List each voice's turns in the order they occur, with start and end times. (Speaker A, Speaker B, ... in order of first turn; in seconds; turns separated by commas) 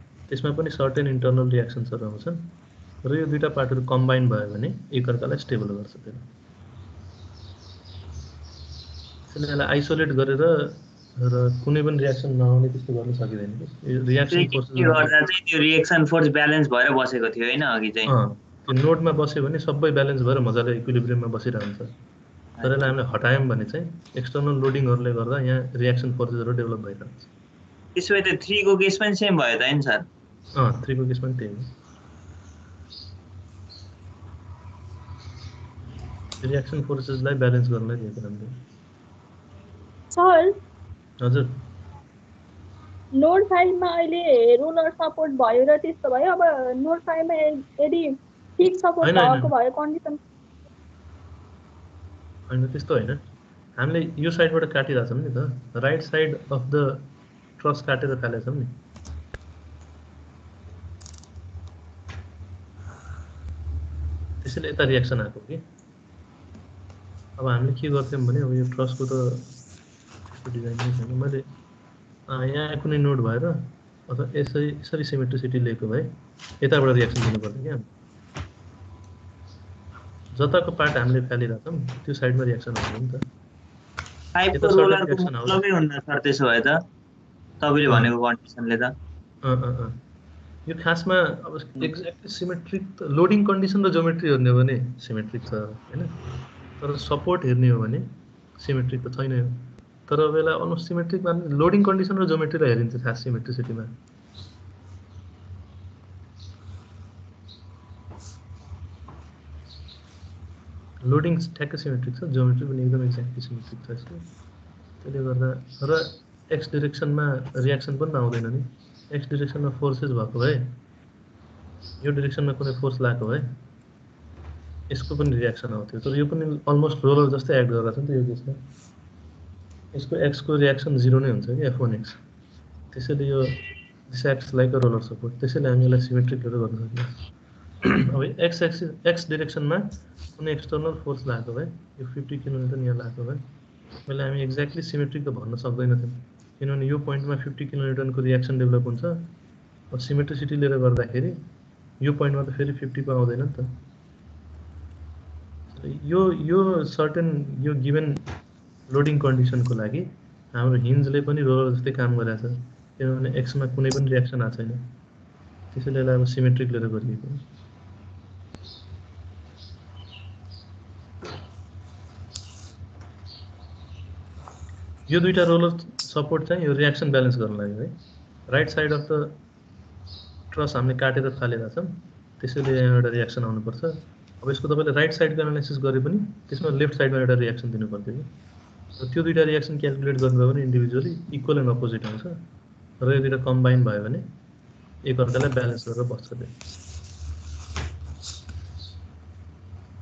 Speaker A: 0.3-6.3, Speaker A: 9.3-15.2, Speaker B: 14.3-18.1, Speaker A: 18.1-22.0, Speaker B: 22.6-22.9, Speaker A: 22.6-27.3, Speaker B: 28.0-30.1, Speaker A: 30.6-31.7, Speaker A: 36.4-38.6, Speaker C: 40.1-40.5, Speaker A: 41.2-41.6, Speaker C: 43.1-50.2, Speaker A: 49.0-49.5, Speaker A: 52.5-53.2, Speaker A: 53.8-58.8, Speaker A: 64.4-65.6, Speaker A: 67.4-69.5, Speaker A: 70.3-71.5, Speaker A: 72.3-76.1, Speaker A: 76.6-77.8, Speaker A: 80.3-83.3, Speaker B: 84.4-86.8, Speaker A: 84.5-85.6, Speaker B: 87.6-88.9, Speaker A: 89.4-90.0, Speaker A: 90.7-96.1, Speaker A: 96.8-104.0, Speaker A: 111.0-114.3, Speaker A: 115.0-120.8, Speaker A: 122.0-123.5, Speaker A: 124.9-128.6, Speaker A: 129.9-132.2, Speaker A: 132.9-137.2, Speaker A: 137.8-143.4, Speaker A: 144.1-149.3, Speaker A: 149.9-151.4, Speaker A: 152.0-153.7, Speaker A: 155.7-158.3, Speaker A: 158.9-164.9, Speaker A: 165.7-167.4, Speaker A: 175.1-177.9, Speaker A: 178.5-179.4, Speaker A: 180.5-188.3, Speaker A: 189.0-192.4, Speaker A: 193.0-194.2, Speaker A: 195.0-196.5